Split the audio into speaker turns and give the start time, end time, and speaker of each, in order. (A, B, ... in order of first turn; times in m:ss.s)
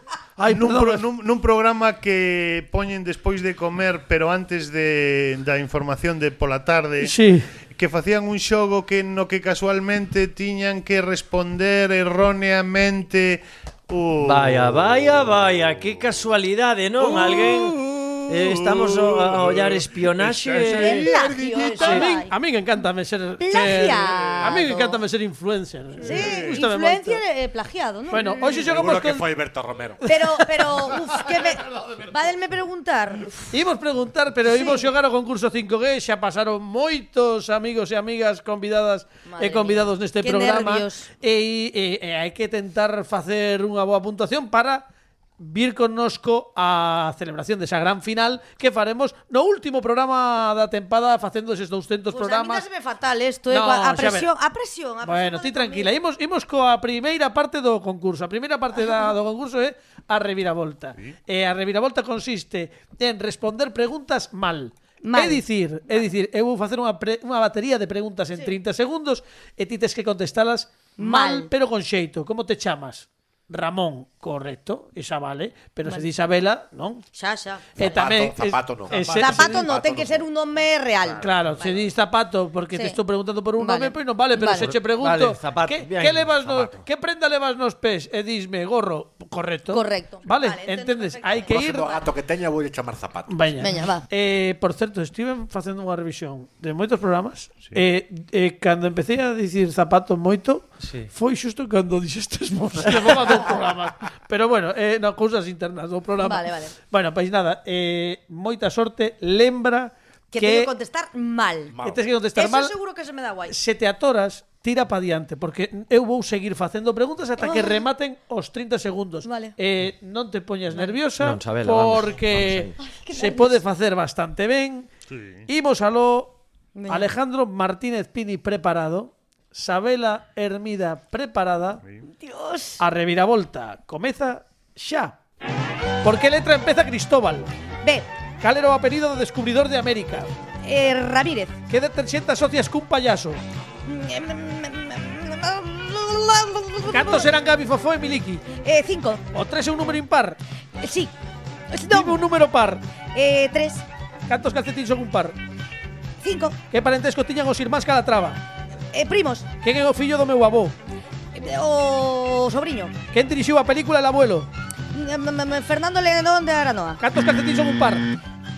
0:00.4-0:01.0 A
0:00.5-0:07.2 B
0:07.0-0:07.5 A
0:07.7-0:14.8 B
0:14.2-0:20.8 C
0:17.0-0:22.1 B
0:20.5-0:21.1 A
0:20.7-0:22.3 D
0:21.8-0:27.2 A
0:23.4-0:25.0 D
0:24.2-0:24.4 B
0:26.0-0:26.6 B
0:26.0-0:28.6 D
0:28.1-0:29.2 A
0:28.4-0:30.0 E
0:30.0-0:30.9 A
0:30.0-0:33.5 D
0:33.5-0:44.8 A
0:34.5-0:34.9 D
0:39.3-0:41.0 D
0:45.4-0:52.6 A
0:52.1-0:55.9 D
0:53.5-0:54.3 A
0:55.0-1:17.0 A
0:58.8-0:59.1 D
1:05.0-1:06.0 D
1:11.0-1:11.5 D
1:17.1-1:18.0 D
1:17.8-1:19.7 A
1:17.8-1:20.3 E
1:19.1-1:21.8 D
1:21.2-1:31.9 A
1:23.6-1:24.7 D
1:24.5-1:26.8 C
1:29.7-1:32.0 D
1:31.5-1:33.6 E
1:33.3-1:50.7 A
1:33.6-1:34.0 D
1:40.8-1:41.1 C
1:46.2-1:46.7 D
1:50.3-1:51.7 D
1:51.7-1:52.0 E
1:51.8-1:52.7 A
1:52.4-1:53.6 D
1:53.5-2:04.9 A
1:57.4-1:57.8 D
1:59.2-1:59.5 D
2:00.7-2:01.0 D
2:01.2-2:02.7 C
2:02.8-2:03.6 D
2:05.1-2:05.4 B
2:05.5-2:06.4 A
2:06.7-2:07.1 D
2:06.9-2:11.8 A
2:12.2-2:12.8 D
2:12.8-2:15.2 A
2:16.0-2:17.5 A
2:18.4-2:20.3 A
2:20.6-2:21.6 D
2:21.7-2:23.4 A
2:23.8-2:27.3 D
2:26.8-2:28.5 A
2:28.6-2:29.2 D
2:29.3-2:30.4 A
2:30.8-2:31.1 D
2:31.7-2:32.2 D
2:31.9-2:32.8 A
2:33.1-2:33.8 D
2:34.3-2:35.4 A
2:36.2-2:36.6 D
2:36.7-2:38.4 A
2:38.9-2:39.5 D
2:39.6-2:40.7 A
2:41.3-2:42.9 D
2:43.1-2:44.5 A
2:44.9-2:47.0 D
2:47.0-2:48.1 A